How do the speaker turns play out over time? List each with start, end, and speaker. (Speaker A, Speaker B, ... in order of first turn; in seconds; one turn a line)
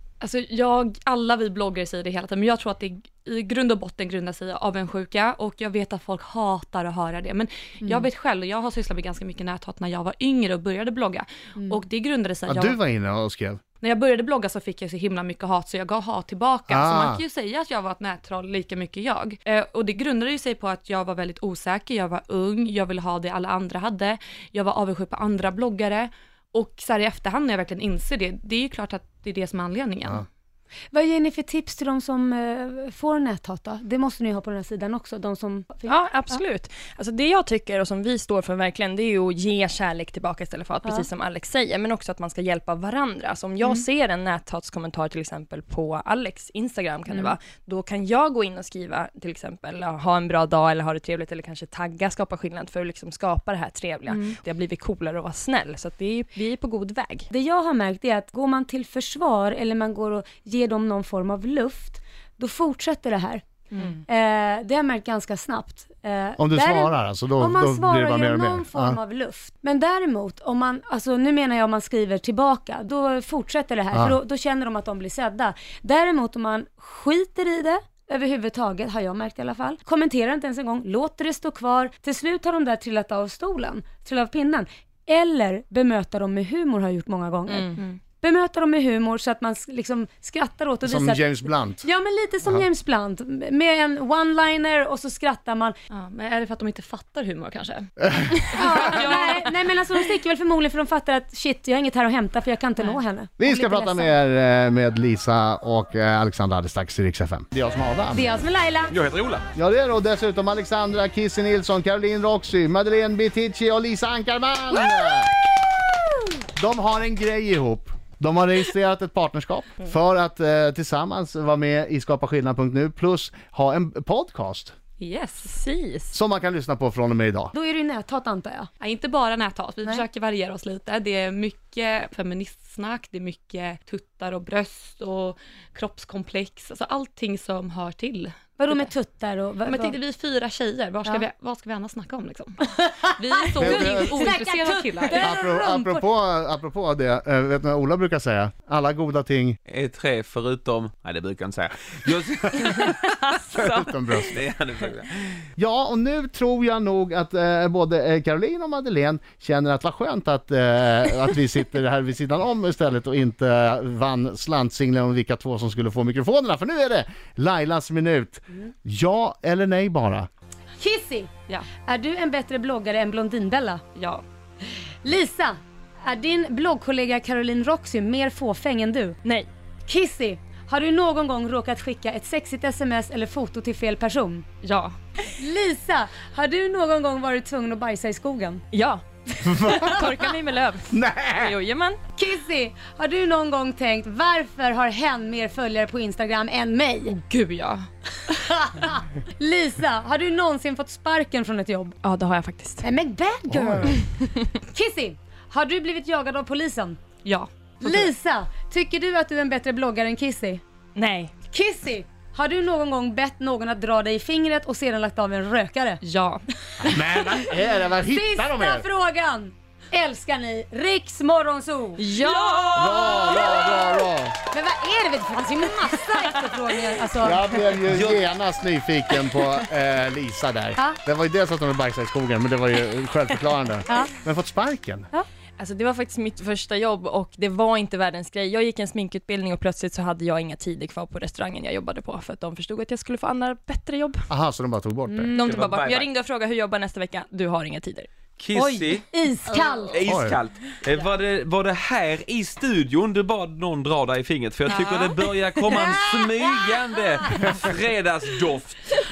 Speaker A: 0.2-12.8
Speaker B: 7.8-8.1
Speaker C: 12.4-13.6
Speaker A: 13.8-30.2
Speaker C: 16.7-17.2
Speaker B: 30.9-36.4
Speaker D: 35.9-57.3
Speaker B: 54.1-54.4
Speaker B: 57.3-95.8
Speaker C: 66.4-69.0
Speaker C: 73.9-74.2
Speaker D: 87.5-87.8
Speaker C: 90.8-91.8
Speaker A: 95.9-97.9
Speaker C: 98.0-98.5
Speaker A: 98.4-99.5
Speaker B: 98.5-104.2
Speaker C: 103.4-108.3
Speaker B: 108.1-108.9
Speaker E: 108.9-109.4
Speaker C: 109.5-115.4
Speaker C: 116.5-124.7
Speaker A: 125.0-125.6
Speaker D: 125.5-126.1
Speaker C: 126.1-127.5
Speaker B: 127.5-128.7
Speaker A: 128.8-138.9
Speaker B: 138.6-140.0
Speaker A: 139.6-145.3
Speaker B: 142.7-146.1
Speaker C: 143.6-144.3
Speaker C: 145.2-149.6
Speaker E: 149.7-153.2
Speaker D: 152.6-153.8
Speaker C: 153.5-154.3
Speaker E: 154.2-155.4
Speaker C: 155.6-170.3
Speaker B: 170.8-171.3
Speaker B: 171.8-173.8
Speaker A: 173.9-174.2
Speaker B: 175.0-179.2
Speaker B: 179.9-184.4
Speaker A: 184.6-184.9
Speaker B: 185.3-188.6
Speaker D: 188.7-192.0
Speaker C: 189.4-190.0
Speaker C: 190.9-191.5
Speaker B: 192.1-197.2
Speaker A: 197.1-197.8
Speaker B: 198.3-202.0
Speaker D: 202.0-202.8
Speaker B: 202.8-207.0
Speaker C: 203.5-204.0
Speaker A: 207.2-208.1
Speaker B: 207.8-210.6
Speaker D: 210.9-211.3
Speaker B: 211.5-216.0
Speaker A: 216.0-216.4
Speaker B: 216.8-222.1
Speaker C: 216.8-218.9
Speaker D: 222.0-223.1
Speaker C: 222.7-224.4
Speaker B: 223.0-227.8
Speaker C: 227.2-235.1
Speaker E: 227.9-228.2
Speaker D: 235.6-244.3
Speaker C: 244.3-245.3
Speaker B: 245.1-245.4
Speaker D: 245.3-248.2
Speaker E: 245.3-246.1
Speaker E: 248.3-258.8
Speaker B: 248.5-250.0
Speaker C: 250.1-250.4
Speaker A: 254.7-255.2